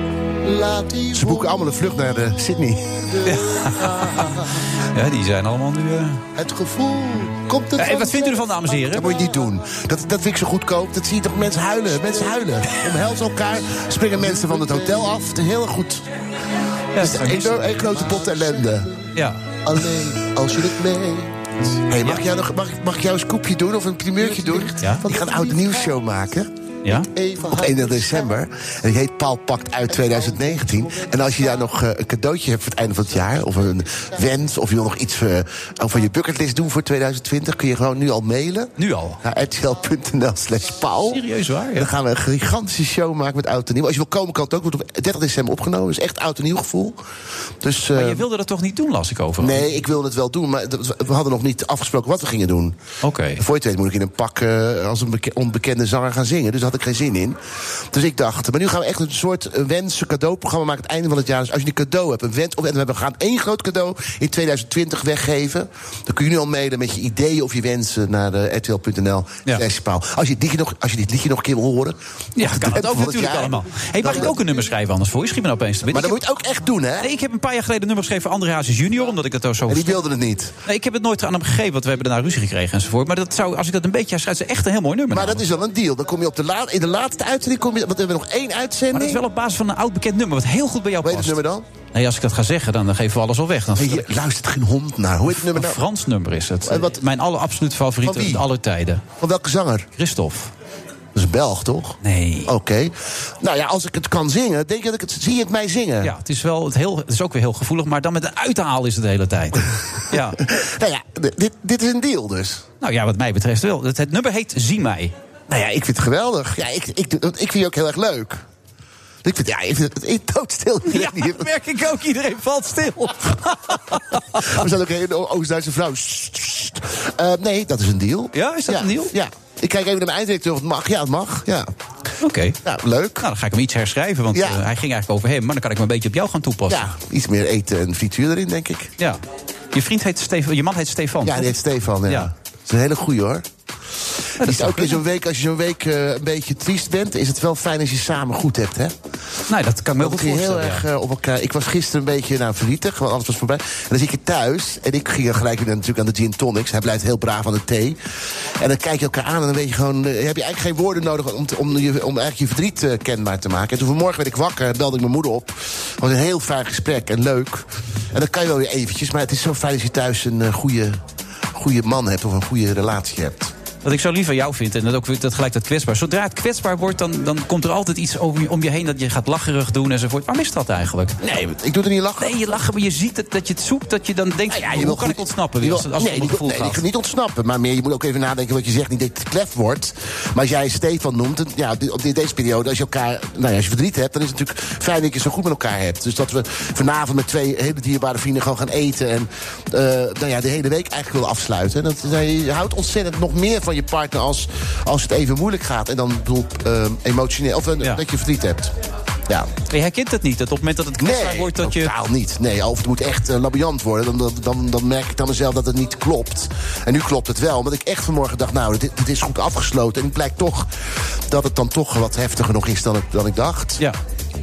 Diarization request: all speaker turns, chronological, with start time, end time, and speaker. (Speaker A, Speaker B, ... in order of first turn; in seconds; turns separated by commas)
Speaker A: 0.4-4.5, Speaker B: 3.2-6.2, Speaker A: 6.3-16.1, Speaker B: 7.8-9.2, Speaker B: 16.9-18.3, Speaker A: 17.0-19.0, Speaker B: 19.1-19.4, Speaker A: 19.6-26.5, Speaker B: 24.8-25.0, Speaker A: 27.1-41.2, Speaker B: 38.8-39.2, Speaker B: 41.1-41.9, Speaker A: 41.7-47.0, Speaker A: 47.6-48.2, Speaker B: 47.9-49.7, Speaker A: 49.4-52.7, Speaker B: 53.0-53.4, Speaker A: 53.4-57.4, Speaker A: 57.9-74.3, Speaker B: 72.4-76.2, Speaker A: 75.9-77.1, Speaker B: 77.0-80.0, Speaker A: 79.7-80.5, Speaker B: 80.7-85.4, Speaker A: 85.1-89.2, Speaker B: 88.9-91.4, Speaker A: 91.0-91.6, Speaker B: 91.9-94.1, Speaker A: 93.8-95.8, Speaker B: 95.3-99.0, Speaker A: 96.7-97.0, Speaker A: 98.0-98.4, Speaker A: 99.2-99.9, Speaker B: 100.0-100.5, Speaker A: 101.1-106.1, Speaker B: 102.0-102.5, Speaker B: 106.0-110.4, Speaker A: 110.4-112.6, Speaker B: 112.8-115.1, Speaker A: 115.5-118.4, Speaker A: 119.2-121.5, Speaker B: 120.9-124.6, Speaker A: 124.4-131.7, Speaker B: 128.3-129.1, Speaker B: 132.2-132.6, Speaker A: 132.6-133.2, Speaker B: 133.2-136.9, Speaker A: 134.3-134.6, Speaker A: 136.7-138.9, Speaker B: 139.7-141.5, Speaker A: 141.2-143.5, Speaker B: 144.4-145.0, Speaker A: 144.4-148.9, Speaker B: 149.5-150.8, Speaker A: 150.0-158.0, Speaker A: 158.6-171.0, Speaker A: 171.5-173.5, Speaker B: 173.8-181.2, Speaker A: 181.2-182.3, Speaker B: 182.2-186.8, Speaker A: 184.5-208.7, Speaker B: 209.7-211.9, Speaker A: 211.0-223.8